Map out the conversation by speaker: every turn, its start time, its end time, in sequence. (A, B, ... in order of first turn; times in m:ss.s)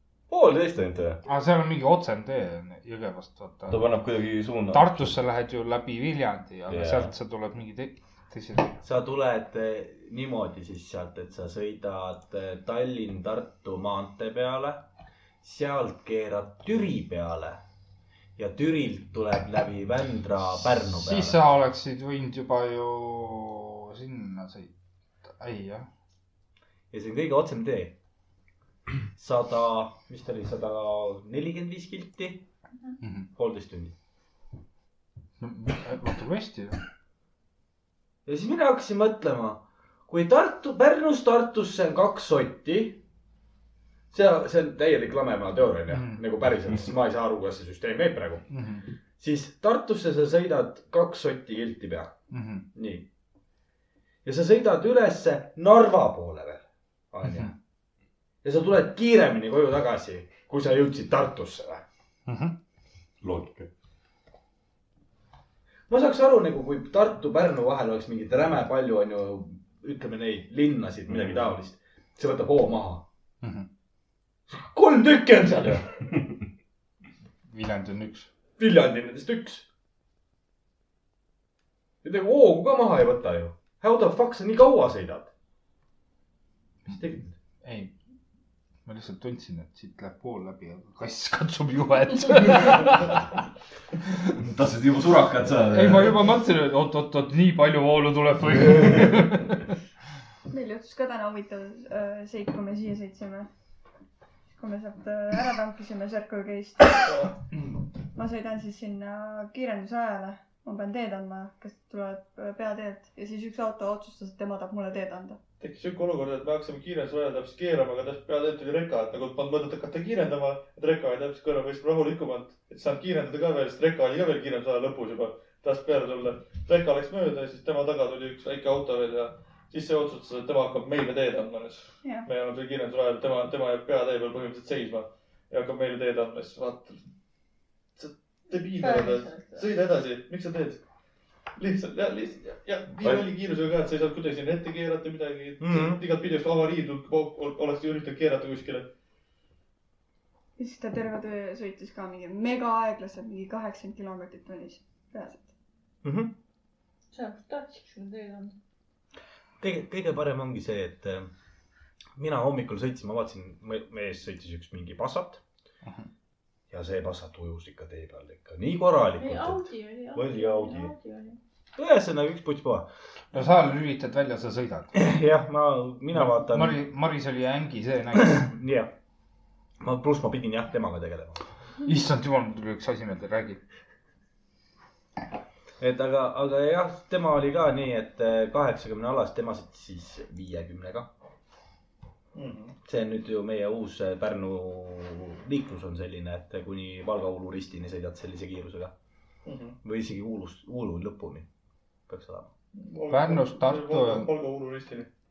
0:00.3-0:01.2 A
0:01.2-0:03.9 B
0:03.7-0:05.2 A
0:04.7-0:08.8 B
0:06.7-0:07.1 A
0:08.8-0:14.8 C
0:15.4-0:17.6 C
0:18.4-0:21.4 C
0:20.9-0:24.7 B
0:25.3-0:25.9 B
0:26.9-0:27.9 C
0:29.1-0:32.4 C
0:33.0-0:33.3 B
0:33.3-0:33.9 C
0:35.4-0:36.8 B
0:38.2-0:43.0 C
0:44.1-0:48.5 C
0:45.9-0:46.2 B
0:48.5-0:48.8 B
0:49.2-0:52.1 C
0:52.3-0:52.6 B
0:52.7-0:53.0 C
0:54.2-0:57.5 C
0:57.2-0:57.5 B
0:58.4-1:01.8 C
1:02.3-1:02.6 B
1:03.2-1:03.7 A
1:05.9-1:13.0 C
1:11.1-1:11.5 A
1:13.4-1:13.7 B
1:14.5-1:15.9 C
1:17.5-1:18.3 B
1:18.6-1:19.6 C
1:22.0-1:25.3 C
1:26.8-1:27.3 C
1:27.6-1:27.9 B
1:28.8-1:33.3 B
1:34.4-1:36.2 A
1:35.7-1:39.6 B
1:40.5-1:43.5 D
1:44.6-1:47.1 D
1:48.1-1:55.4 D
1:55.6-2:17.0 E
2:18.0-2:20.8 E
2:18.8-2:19.7 F
2:21.6-2:28.9 E
2:25.6-2:26.0 C
2:30.6-2:35.5 D
2:36.0-2:36.3 C
2:37.1-2:38.6 F
2:39.6-2:41.3 C
2:42.2-2:45.4 C
2:46.7-2:50.9 C
2:49.2-2:51.4 F
2:51.8-2:52.9 C
2:53.3-2:54.9 B
2:54.9-2:56.8 C
2:56.1-2:58.5 B
2:58.1-2:58.9 C
2:59.8-3:01.4 C
3:01.8-3:03.6 B
3:05.8-3:11.1 C
3:12.3-3:12.7 E
3:12.8-3:18.9 C
3:19.4-3:19.8 E
3:19.8-3:21.5 C
3:22.1-3:22.5 C
3:22.7-3:25.1 E
3:23.1-3:24.3 B